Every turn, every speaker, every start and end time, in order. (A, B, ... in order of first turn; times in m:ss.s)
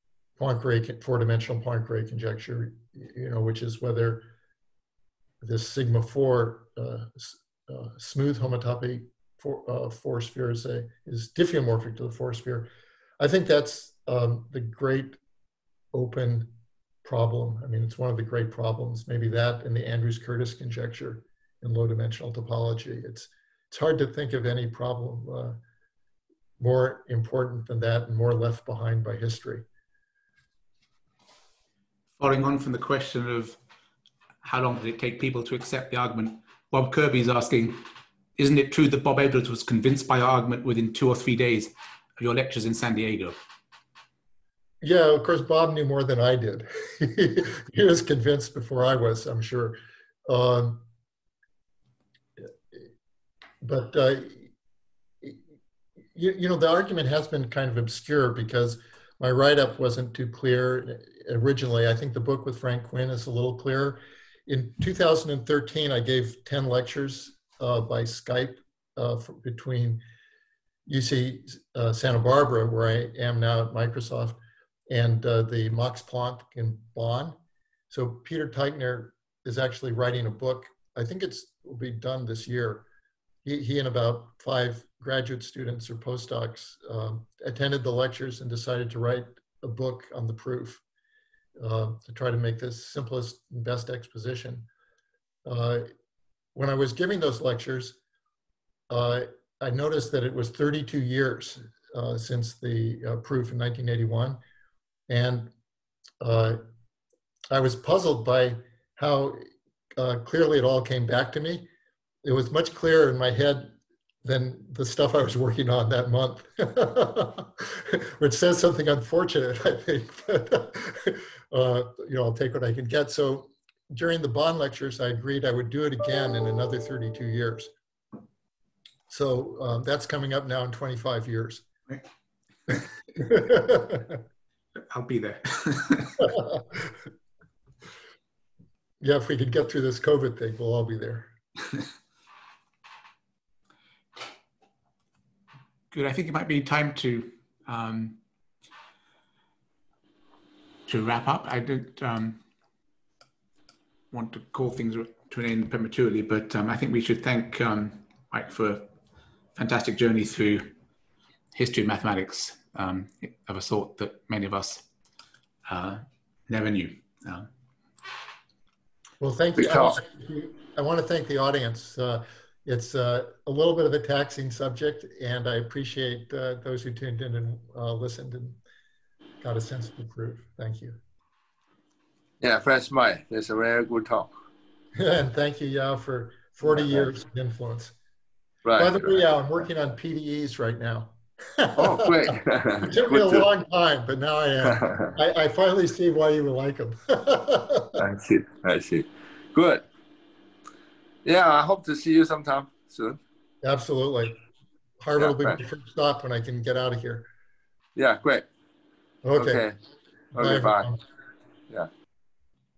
0:00.4-0:04.3 A
0:05.4-0:12.7 A
0:13.2-0:15.2 A
0:15.9-0:16.5 A
0:17.0-0:25.6 A
0:26.6-0:29.6 A
0:32.2-0:33.6 B
0:34.4-0:43.4 B
0:44.8-0:49.8 A
0:50.3-0:50.8 A
0:53.6-0:54.5 A
0:56.2-1:10.0 A
1:10.9-1:14.4 A
1:14.9-1:17.4 A
1:17.9-1:22.9 A
1:23.4-1:30.8 A
1:31.6-1:34.7 A
1:35.5-1:35.9 A
1:36.6-1:38.0 A
1:38.9-1:44.4 A
1:45.1-1:45.5 A
1:46.2-1:46.6 A
1:47.5-1:49.4 A
1:50.0-1:51.7 A
1:52.2-2:07.7 A
2:09.1-2:11.6 A
2:13.2-2:14.2 A
2:14.8-2:16.4 B
2:19.0-2:21.3 A
2:25.9-2:28.2 B
2:30.9-2:32.4 B
2:34.1-2:38.9 B
2:39.6-2:40.7 B
2:41.5-2:44.9 B
2:45.7-2:47.5 B
2:49.2-2:58.6 A
2:49.6-2:50.0 C
2:59.4-3:01.0 A
3:02.4-3:04.3 C
3:05.0-3:07.9 A
3:06.8-3:07.1 C
3:08.6-3:09.2 C
3:08.8-3:18.0 A
3:11.8-3:13.5 C
3:14.7-3:15.1 C
3:18.0-3:19.9 C
3:21.2-3:23.2 C
3:23.6-3:24.3 A
3:25.0-3:27.3 A
3:25.2-3:25.6 C
3:28.0-3:28.5 C
3:29.2-3:29.7 A
3:29.4-3:29.8 C
3:30.3-3:30.9 C
3:30.4-3:31.0 A